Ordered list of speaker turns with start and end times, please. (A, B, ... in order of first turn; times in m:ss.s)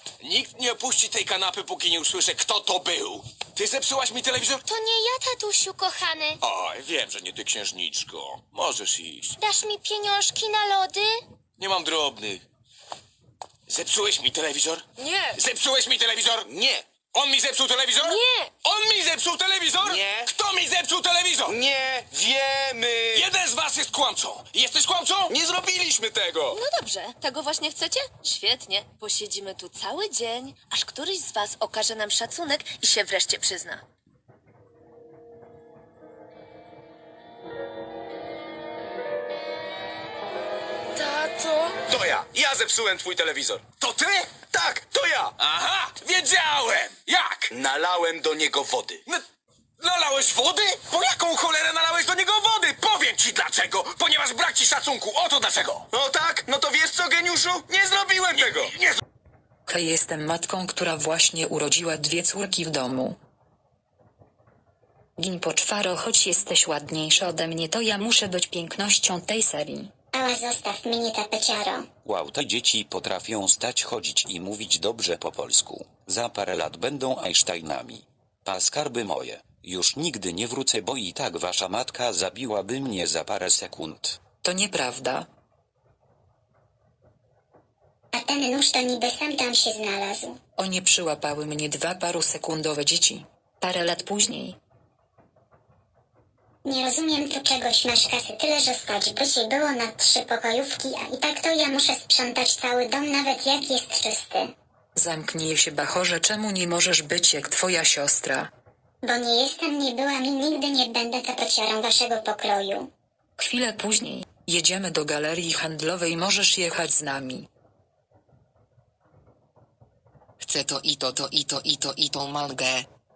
0:00.2-0:04.6 A
0:04.7-0:06.3 B
0:06.4-0:09.4 A
0:09.4-0:11.1 B
0:11.6-0:12.4 A
0:13.7-0:16.5 A
0:16.4-0:16.8 C
0:17.1-0:21.5 A
0:17.9-0:18.5 D
0:19.8-0:20.3 C
0:21.4-0:23.3 C
0:23.1-0:25.4 A
0:25.3-0:26.6 C
0:26.5-0:33.8 D
0:41.1-0:41.6 D
0:41.8-0:43.7 C
0:43.8-0:44.3 A
0:44.4-0:45.4 C
0:45.4-0:47.5 A
0:47.5-0:49.0 C
0:49.8-0:55.9 A
0:55.9-0:58.7 C
0:59.7-1:03.2 E
1:05.2-1:09.9 E
1:10.1-1:11.8 F
1:12.0-1:24.2 G
1:24.4-1:25.3 E
1:28.1-1:30.4 F
1:30.6-1:34.6 E
1:36.6-1:44.5 F
1:45.0-1:48.5 E
1:49.0-1:52.9 F
1:53.4-1:57.5 E
2:00.4-2:02.8 H